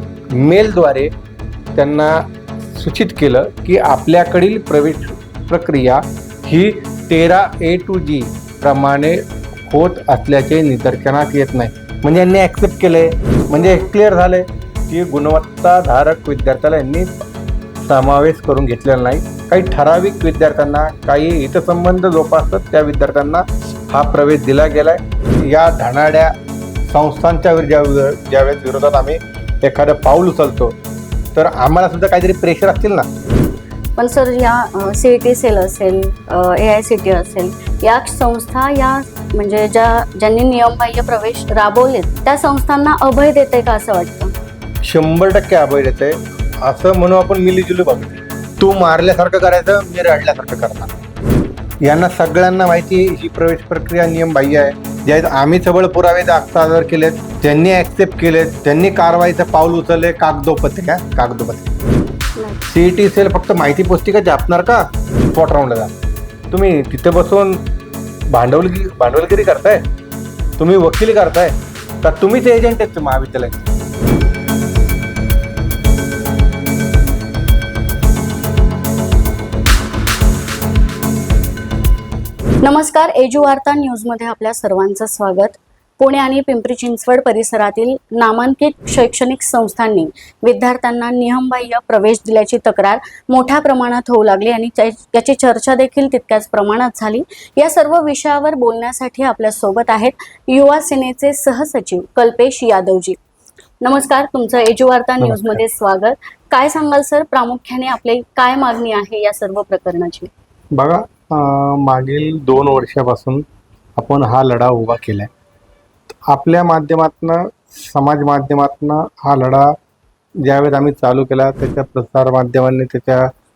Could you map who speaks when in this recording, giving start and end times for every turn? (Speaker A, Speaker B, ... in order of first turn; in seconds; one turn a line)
Speaker A: 0.3-1.1
Speaker A: 1.8-17.1
Speaker B: 13.5-13.9
Speaker A: 17.8-26.3
Speaker A: 26.9-30.8
Speaker A: 31.3-33.1
Speaker B: 34.0-44.3
Speaker A: 44.8-50.9
Speaker A: 51.8-61.7
Speaker B: 62.4-62.6
Speaker A: 62.7-65.9
Speaker A: 66.5-67.6
Speaker A: 68.3-69.8
Speaker A: 70.6-73.7
Speaker B: 82.6-103.2
Speaker B: 103.8-110.3
Speaker A: 105.2-105.6
Speaker A: 110.8-113.5
Speaker A: 114.0-115.3
Speaker A: 116.3-119.8
Speaker A: 120.4-123.3